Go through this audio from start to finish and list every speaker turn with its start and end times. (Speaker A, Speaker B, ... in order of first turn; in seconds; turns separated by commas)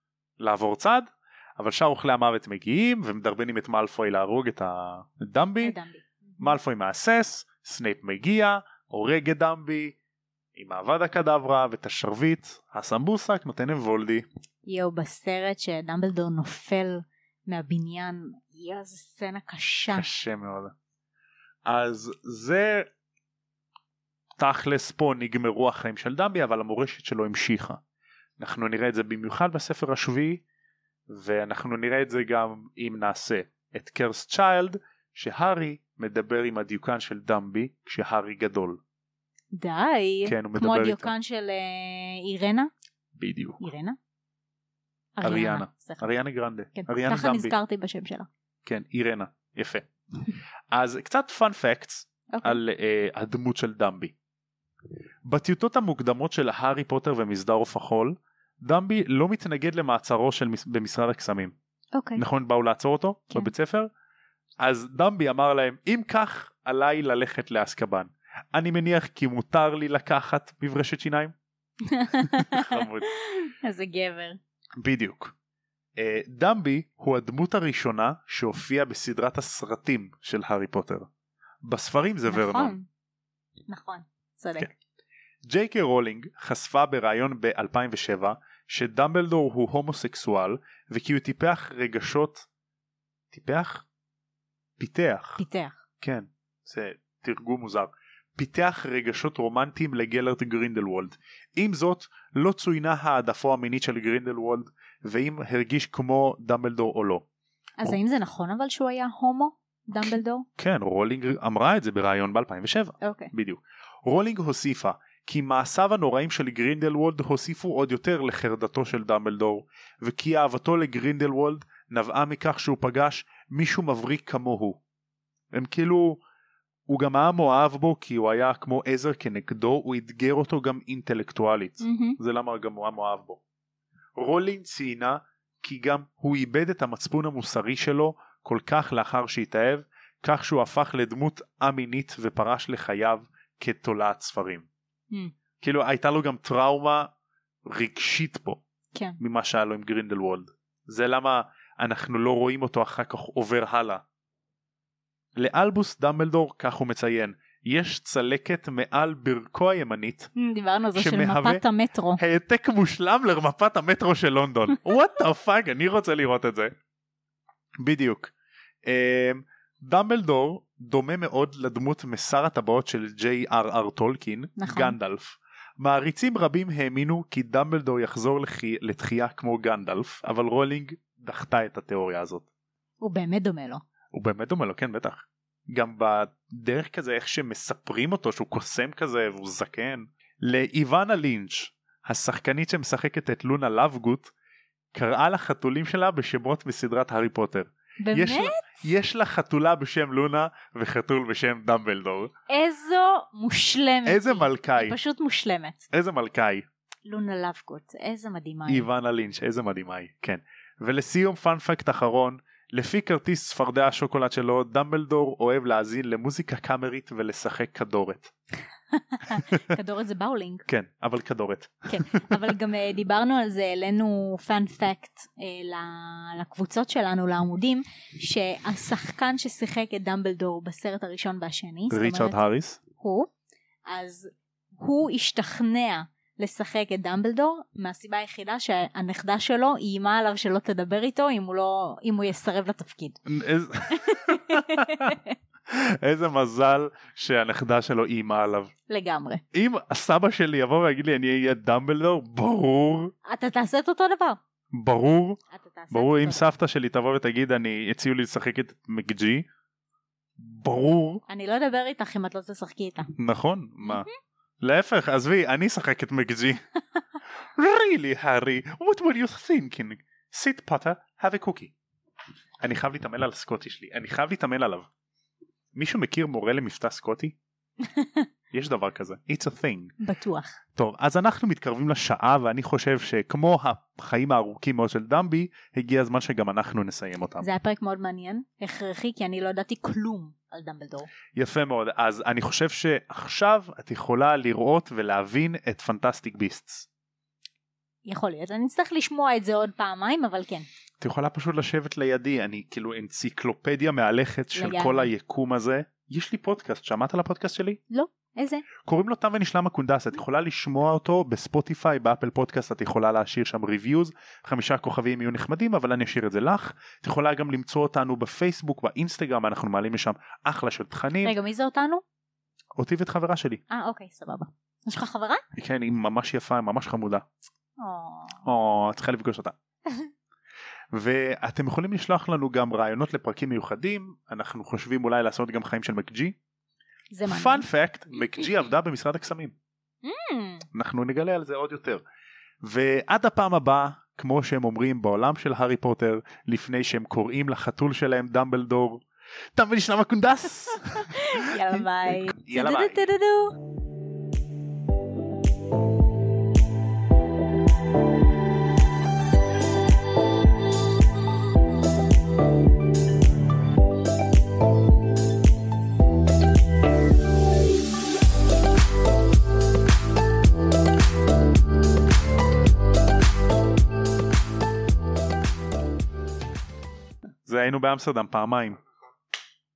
Speaker A: 0.4-5.7, Speaker B: 5.6-6.5, Speaker A: 6.4-9.9, Speaker A: 10.6-14.3, Speaker B: 14.7-20.1, Speaker A: 19.9-20.7, Speaker A: 21.6-22.9, Speaker A: 24.4-27.8, Speaker A: 28.4-30.4, Speaker A: 31.1-38.8, Speaker B: 39.5-42.7, Speaker A: 40.3-41.1, Speaker A: 43.2-43.6, Speaker B: 43.6-44.0, Speaker B: 45.2-46.0, Speaker A: 45.2-47.5, Speaker B: 46.8-48.3, Speaker A: 48.6-49.9, Speaker A: 50.7-54.1, Speaker B: 52.3-52.6, Speaker A: 55.2-61.5, Speaker B: 61.9-62.2, Speaker A: 62.1-63.9, Speaker A: 64.6-71.3, Speaker B: 71.8-74.4, Speaker A: 72.2-73.1, Speaker A: 74.8-75.3, Speaker A: 76.0-81.1, Speaker A: 81.6-82.7, Speaker B: 82.3-82.9, Speaker B: 83.7-84.7, Speaker A: 85.5-92.5, Speaker A: 93.3-93.8, Speaker A: 94.8-95.4, Speaker B: 95.4-95.8, Speaker A: 96.0-107.2, Speaker B: 107.8-110.5, Speaker A: 110.0-124.8, Speaker B: 113.0-113.3, Speaker A: 125.5-126.2, Speaker A: 126.9-133.4, Speaker B: 131.8-132.2, Speaker A: 134.2-144.7, Speaker A: 145.6-147.1, Speaker A: 147.6-148.6, Speaker A: 149.2-154.0, Speaker A: 155.4-160.3, Speaker B: 160.4-162.2, Speaker A: 160.9-161.6, Speaker A: 162.2-166.7, Speaker A: 167.8-168.3, Speaker A: 168.8-182.4, Speaker B: 174.6-175.0, Speaker B: 183.0-183.8, Speaker A: 184.1-194.3, Speaker A: 194.9-202.3, Speaker B: 198.0-198.8, Speaker B: 202.5-205.8, Speaker A: 204.1-204.9, Speaker A: 205.9-206.7, Speaker B: 207.1-208.9, Speaker A: 208.7-218.3, Speaker B: 218.9-220.7, Speaker A: 219.3-219.8, Speaker A: 220.7-222.4, Speaker B: 221.9-232.4, Speaker A: 231.9-232.8, Speaker B: 233.0-233.3, Speaker B: 233.9-243.2, Speaker A: 243.3-245.2, Speaker B: 243.9-245.4, Speaker A: 245.7-248.7, Speaker B: 248.9-249.4, Speaker A: 249.5-253.1, Speaker B: 253.2-254.4, Speaker A: 254.7-255.4, Speaker B: 255.5-256.5, Speaker A: 255.9-259.5, Speaker A: 260.4-261.2, Speaker B: 261.3-263.1, Speaker A: 263.2-264.1, Speaker B: 263.8-264.1, Speaker A: 264.6-266.6, Speaker A: 267.6-271.7, Speaker A: 272.6-274.9, Speaker A: 275.7-277.3, Speaker B: 277.8-278.3, Speaker A: 278.5-279.9, Speaker B: 280.0-280.6, Speaker A: 280.7-287.5, Speaker B: 287.4-291.1, Speaker A: 291.3-296.9, Speaker B: 298.1-300.7, Speaker A: 301.0-307.8, Speaker B: 304.6-305.1, Speaker B: 307.9-308.6, Speaker A: 308.8-321.3, Speaker B: 321.2-322.0, Speaker A: 322.8-323.6, Speaker B: 323.7-325.4, Speaker A: 325.6-327.2, Speaker B: 327.8-328.4, Speaker A: 328.4-329.6, Speaker A: 330.9-336.4, Speaker B: 337.1-337.6, Speaker A: 337.3-339.5, Speaker B: 338.2-338.5, Speaker B: 340.0-340.6, Speaker A: 340.7-342.0, Speaker A: 342.6-349.0, Speaker A: 349.6-353.0, Speaker B: 350.8-353.6, Speaker A: 377.4-378.8